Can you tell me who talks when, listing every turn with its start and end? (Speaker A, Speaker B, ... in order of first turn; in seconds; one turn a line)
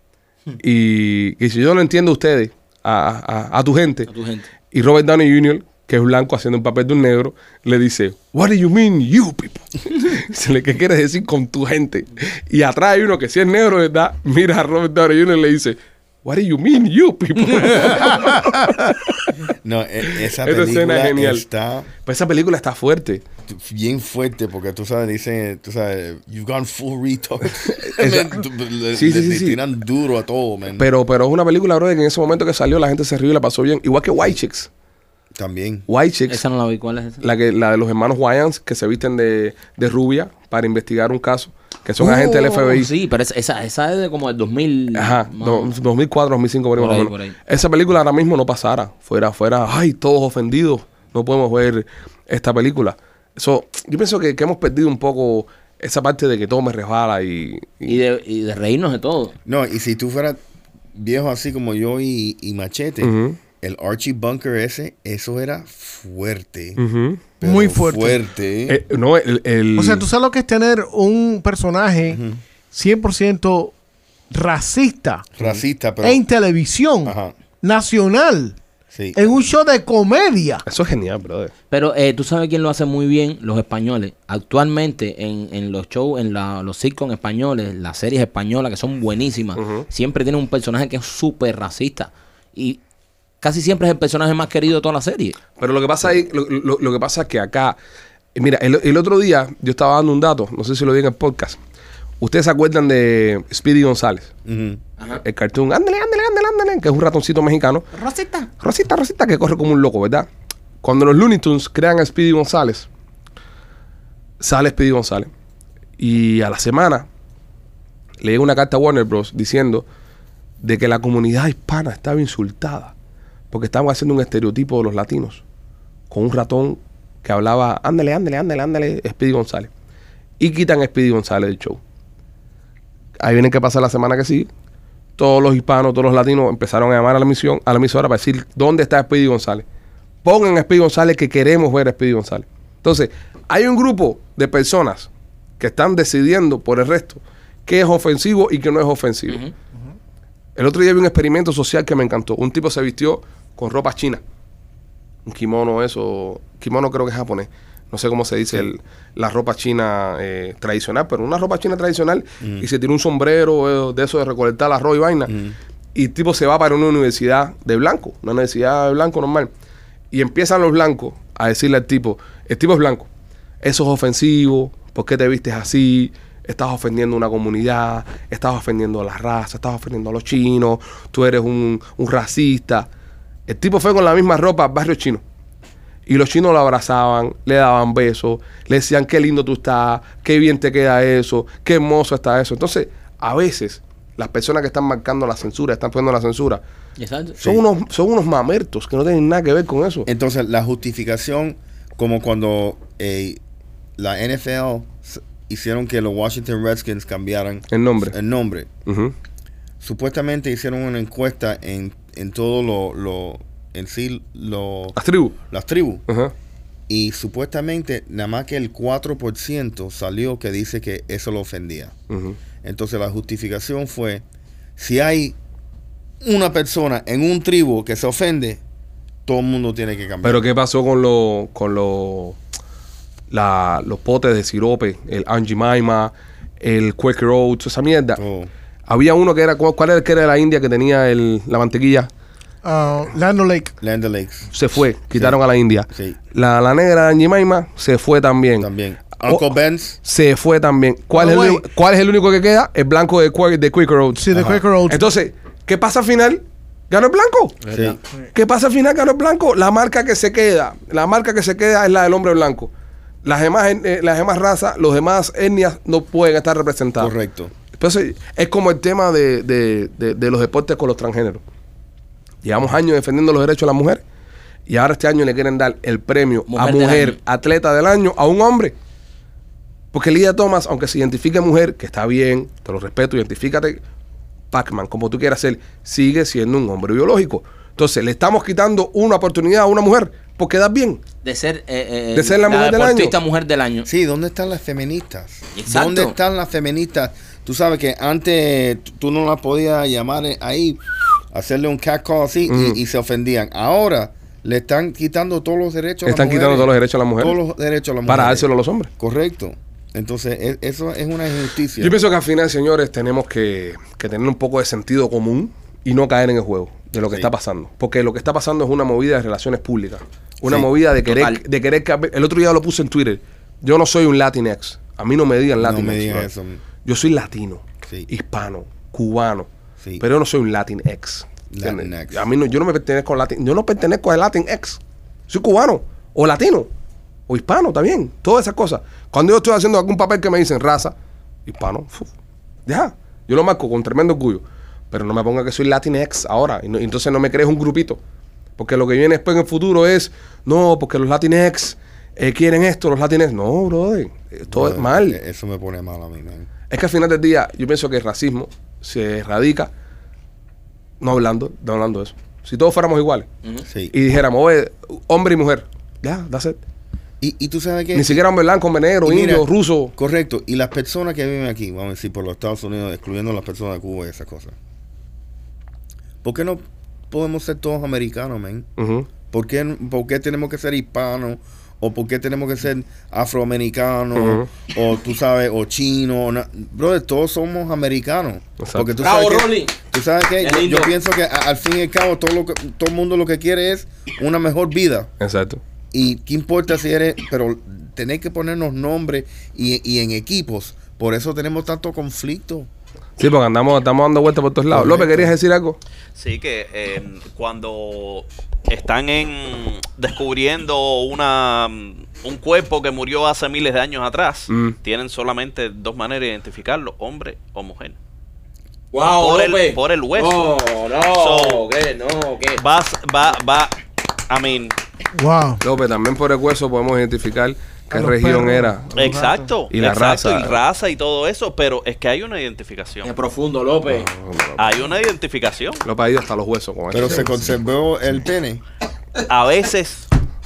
Speaker A: 0.6-4.1
Speaker B: 4.1-4.5
Speaker A: 4.7-19.4
Speaker C: 19.6-21.9
Speaker A: 20.3-21.4
Speaker A: 22.1-23.2
Speaker C: 23.5-30.9
Speaker A: 27.8-28.4
Speaker A: 28.9-29.6
Speaker A: 30.8-34.7
Speaker C: 35.4-35.9
Speaker A: 35.9-36.4
Speaker B: 36.3-37.2
Speaker A: 37.2-42.9
Speaker B: 42.0-45.7
Speaker A: 45.0-58.0
Speaker B: 46.8-47.4
Speaker B: 57.9-59.4
Speaker C: 59.5-60.4
Speaker C: 61.0-66.8
Speaker A: 63.0-63.4
Speaker A: 66.8-67.2
Speaker C: 67.4-68.8
Speaker D: 67.4-68.2
Speaker A: 68.7-70.1
Speaker D: 69.8-73.8
Speaker C: 72.1-72.4
Speaker D: 74.3-75.3
Speaker C: 75.4-76.2
Speaker D: 76.0-78.6
Speaker C: 77.0-77.3
Speaker C: 78.9-79.3
Speaker D: 79.2-80.7
Speaker A: 80.7-81.5
Speaker B: 81.7-92.8
Speaker A: 89.6-89.9
Speaker B: 93.4-95.4
Speaker A: 95.6-97.8
Speaker A: 98.3-101.6
Speaker A: 102.2-104.3
Speaker C: 104.5-104.8
Speaker A: 105.2-107.9
Speaker B: 107.9-108.5
Speaker A: 108.6-110.3
Speaker A: 110.8-112.9
Speaker A: 114.4-115.3
Speaker A: 116.0-117.1
Speaker A: 118.2-119.9
Speaker A: 120.6-122.9
Speaker A: 123.5-125.4
Speaker A: 126.1-129.7
Speaker A: 130.4-131.8
Speaker A: 133.2-134.5
Speaker A: 135.2-139.7
Speaker A: 140.2-149.4
Speaker B: 149.3-149.5
Speaker A: 150.6-154.2
Speaker A: 155.3-165.3
Speaker C: 162.4-162.7
Speaker C: 165.3-165.6
Speaker A: 165.9-169.5
Speaker A: 170.1-173.1
Speaker A: 173.6-182.9
Speaker A: 183.5-185.2
Speaker A: 186.1-196.6
Speaker B: 197.0-197.4
Speaker A: 197.4-200.1
Speaker C: 200.1-203.4
Speaker C: 204.0-208.7
Speaker A: 207.7-208.2
Speaker A: 208.9-209.1
Speaker C: 209.8-215.0
Speaker A: 215.0-215.4
Speaker C: 215.5-216.0
Speaker A: 216.1-216.3
Speaker C: 216.9-221.9
Speaker A: 222.1-222.4
Speaker C: 222.6-224.2
Speaker C: 224.8-225.4
Speaker C: 226.2-228.6
Speaker C: 229.3-230.4
Speaker A: 230.2-232.4
Speaker A: 233.3-238.2
Speaker C: 238.2-238.5
Speaker A: 238.9-242.1
Speaker D: 242.6-243.7
Speaker C: 243.8-244.5
Speaker A: 244.5-248.7
Speaker C: 245.9-246.2
Speaker C: 248.6-250.0
Speaker A: 249.2-249.5
Speaker A: 250.0-257.7
Speaker D: 251.2-251.6
Speaker D: 254.2-255.0
Speaker C: 254.3-254.6
Speaker B: 257.7-258.0
Speaker C: 257.7-258.0
Speaker A: 258.3-262.7
Speaker A: 263.2-267.1
Speaker C: 267.0-267.5
Speaker A: 267.8-271.4
Speaker A: 272.4-274.0
Speaker A: 274.7-278.8
Speaker B: 276.5-277.2
Speaker A: 279.9-283.8
Speaker A: 284.5-291.0
Speaker B: 291.2-293.9
Speaker A: 292.1-293.2
Speaker C: 293.9-308.5
Speaker B: 295.6-296.2
Speaker A: 302.5-302.8
Speaker A: 306.1-307.4
Speaker A: 308.1-308.9
Speaker C: 309.0-312.0
Speaker A: 311.8-326.3
Speaker C: 317.0-317.3
Speaker B: 321.1-321.4
Speaker C: 325.6-326.6
Speaker A: 326.8-329.5
Speaker A: 330.0-336.7
Speaker C: 331.5-332.3
Speaker A: 337.3-340.9
Speaker A: 341.5-342.1
Speaker A: 342.7-348.0
Speaker A: 348.6-355.2
Speaker C: 354.5-356.5
Speaker A: 356.7-359.7
Speaker A: 361.0-363.3
Speaker C: 363.7-363.9
Speaker A: 363.9-366.6
Speaker C: 367.2-368.2
Speaker A: 367.9-369.9
Speaker C: 369.0-374.6
Speaker C: 376.2-378.7
Speaker A: 378.8-379.1
Speaker C: 379.3-395.1
Speaker A: 384.1-384.5
Speaker A: 388.6-388.9
Speaker B: 389.0-389.7
Speaker B: 390.4-390.9
Speaker A: 395.2-395.6
Speaker C: 395.9-402.7
Speaker A: 403.2-405.8
Speaker C: 404.7-405.4
Speaker E: 406.1-418.0
Speaker A: 414.5-414.8
Speaker B: 418.9-422.6
Speaker E: 419.0-420.5
Speaker E: 421.1-421.6
Speaker E: 422.6-424.8
Speaker D: 425.1-425.6
Speaker A: 425.6-428.9
Speaker D: 427.9-429.5
Speaker E: 429.0-433.1
Speaker A: 429.7-430.6
Speaker B: 433.0-434.1
Speaker A: 433.9-434.9
Speaker E: 434.6-435.9
Speaker A: 435.9-437.3
Speaker C: 436.9-438.6
Speaker E: 439.2-440.1